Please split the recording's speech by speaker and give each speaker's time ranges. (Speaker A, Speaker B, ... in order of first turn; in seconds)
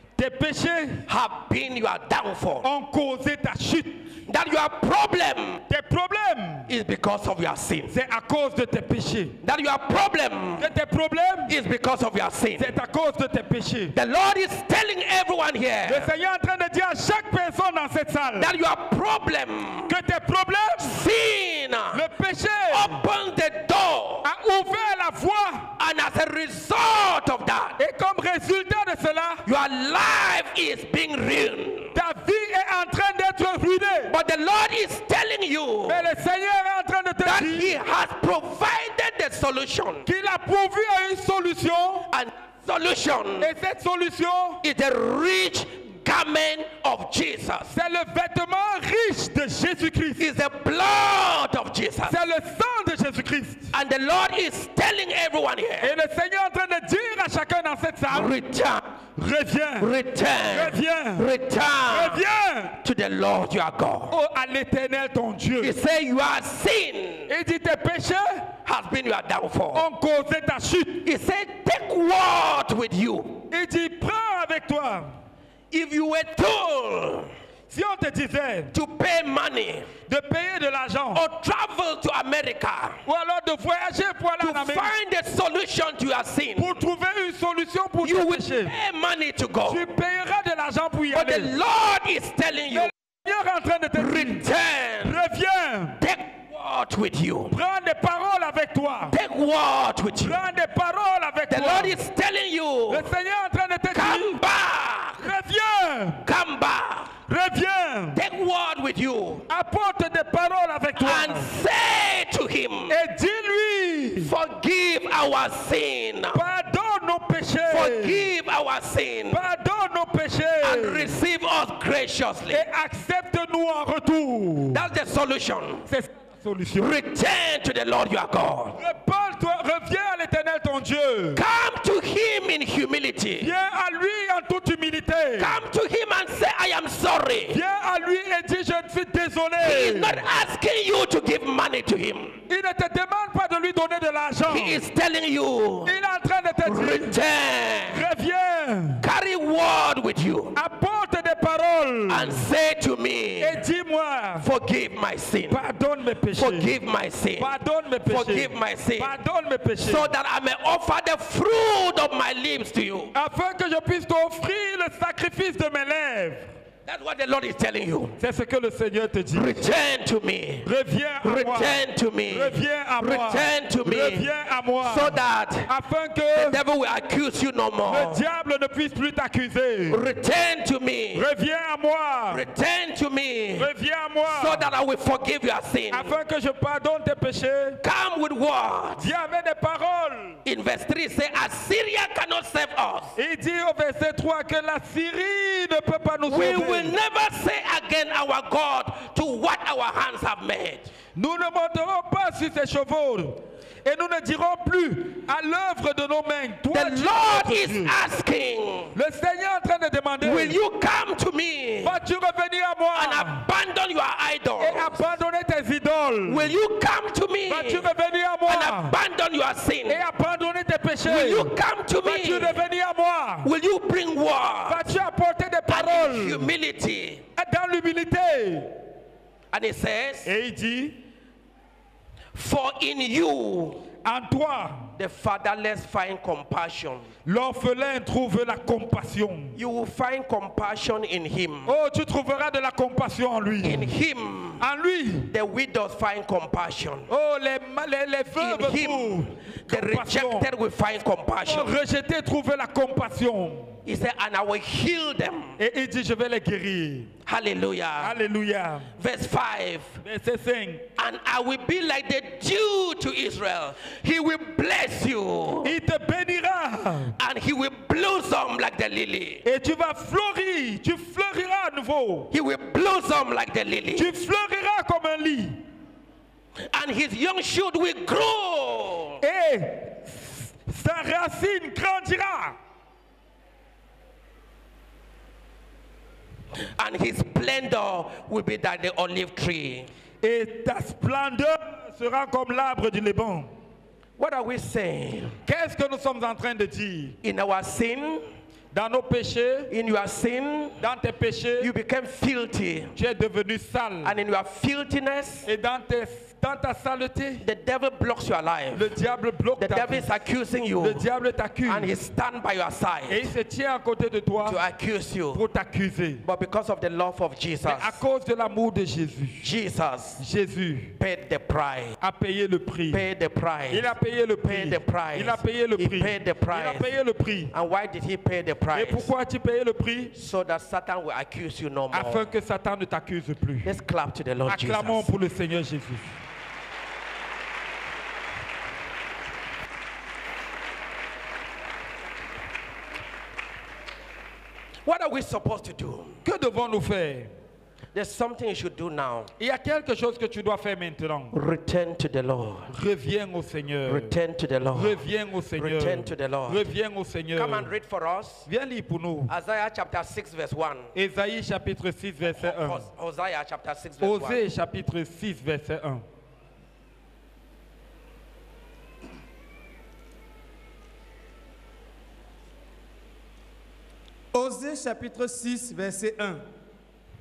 Speaker A: 0.1-1.1, 2.6-4.1, 5.7-6.7, 7.9-9.4, 10.6-11.5, 12.6-13.9, 15.8-18.5, 19.9-21.0, 21.9-23.0, 24.2-25.7, 27.8-29.4, 31.9-34.1, 35.9-37.8, 40.0-42.1, 43.4-44.6, 47.7-50.2, 52.0-53.7, 55.8-58.3, 59.1-59.9, 60.5-61.3, 61.9-62.8, 64.1-65.8, 67.3-68.5, 69.7-71.1, 73.5-75.2, 77.7-78.7, 80.1-81.2, 83.0-84.9, 86.6-88.7, 89.7-91.5, 92.7-94.4, 95.0-96.0, 97.5-99.2, 100.2-102.0, 102.9-104.4, 105.2-106.2, 107.3-108.2, 109.5-111.5, 112.9-114.3, 116.3-118.3, 119.3-121.1, 122.5-124.8, 125.9-126.9, 128.8-131.4, 133.4-135.6, 137.5-140.2, 142.5-144.8, 145.8-147.2, 147.9-149.0, 150.5-152.5, 153.4-154.5, 155.5-156.8, 157.4-160.1, 163.1-166.5, 168.2-169.5, 170.6-176.6, 177.8-180.0, 181.1-182.4, 183.6-184.7, 185.9-187.8, 189.0-190.4, 193.2-196.9, 201.1-207.9, 208.9-210.6, 211.8-213.4, 214.6-216.5, 217.5-218.9, 219.9-223.5, 224.7-226.5, 227.4-228.8, 230.2-231.0, 234.0-234.9, 237.2-239.6, 241.7-243.9, 244.6-245.3, 247.1-250.5, 251.4-253.8, 255.6-257.1, 258.0-258.9, 260.0-260.8, 265.6-267.1, 269.4-272.3, 273.9-275.6, 279.2-282.6, 290.2-293.5, 295.4-297.1, 298.7-299.7, 300.8-301.7, 302.9-304.1, 305.4-307.4, 308.7-310.1, 310.8-311.9, 313.1-314.6, 315.3-316.2, 317.6-319.5, 320.2-320.9, 322.0-323.0, 323.7-327.5, 328.7-330.1, 331.9-333.7, 334.5-336.1, 346.2-347.3, 349.4-351.3, 352.7-354.1, 354.7-357.7, 358.4-359.3, 360.9-362.9, 364.0-366.0
Speaker B: 1.1-2.7, 4.3-5.6, 6.7-7.9, 9.4-10.7, 11.5-12.7, 13.9-16.1, 18.4-19.9, 20.8-22.0, 22.7-24.3, 25.8-27.8, 29.4-31.9, 34.1-36.0, 37.2-40.1, 42.1-43.5, 44.6-47.7, 50.2-52.1, 53.7-55.9, 58.1-58.9, 59.8-62.2, 62.8-64.1, 65.6-67.3, 68.7-69.8, 71.0-73.5, 75.7-77.3, 78.7-79.9, 81.1-83.0, 84.4-86.8, 88.0-89.8, 91.1-92.9, 94.0-95.2, 96.0-97.5, 99.1-100.4, 101.5-103.1, 103.9-105.3, 106.2-107.1, 108.1-109.5, 111.0-113.0, 114.2-116.4, 117.7-119.4, 120.6-122.6, 124.7-125.9, 126.8-128.8, 131.3-133.5, 135.4-137.6, 139.6-142.4, 144.5-145.9, 146.6-148.0, 149.0-150.6, 152.1-153.6, 154.4-155.6, 156.4-157.5, 158.1-159.1, 159.8-163.1, 166.8-168.2, 169.3-170.7, 171.2-174.3, 174.8-175.7, 176.3-178.2, 179.9-181.2, 182.3-183.7, 184.3-186.1, 187.8-189.1, 190.4-193.1, 196.3-200.9, 206.7-208.9, 210.2-212.0, 212.9-215.1, 216.2-217.9, 218.5-220.0, 221.0-222.6, 223.4-224.9, 225.7-227.2, 229.5-230.3, 232.3-233.8, 234.9-237.1, 239.5-241.7, 243.6-244.6, 245.3-247.1, 248.3-251.7, 253.8-255.6, 257.2-258.2, 259.0-260.0, 261.0-265.7, 267.2-269.4, 272.3-274.1, 276.7-279.2, 286.5-289.9, 294.2-295.4, 297.2-298.3, 299.7-300.8, 301.6-302.9, 304.0-305.5, 307.4-308.9, 309.6-311.0, 311.6-313.3, 314.4-315.4, 316.2-318.0, 319.4-320.2, 321.0-322.0, 322.9-323.9, 324.4-326.9, 327.5-329.1, 330.1-332.3, 333.6-335.1, 344.8-346.2, 347.9-349.3, 351.3-352.7, 353.9-355.0, 355.6-356.7, 357.3-358.5, 359.3-360.9, 362.3-364.4
Speaker C: 374.3-376.4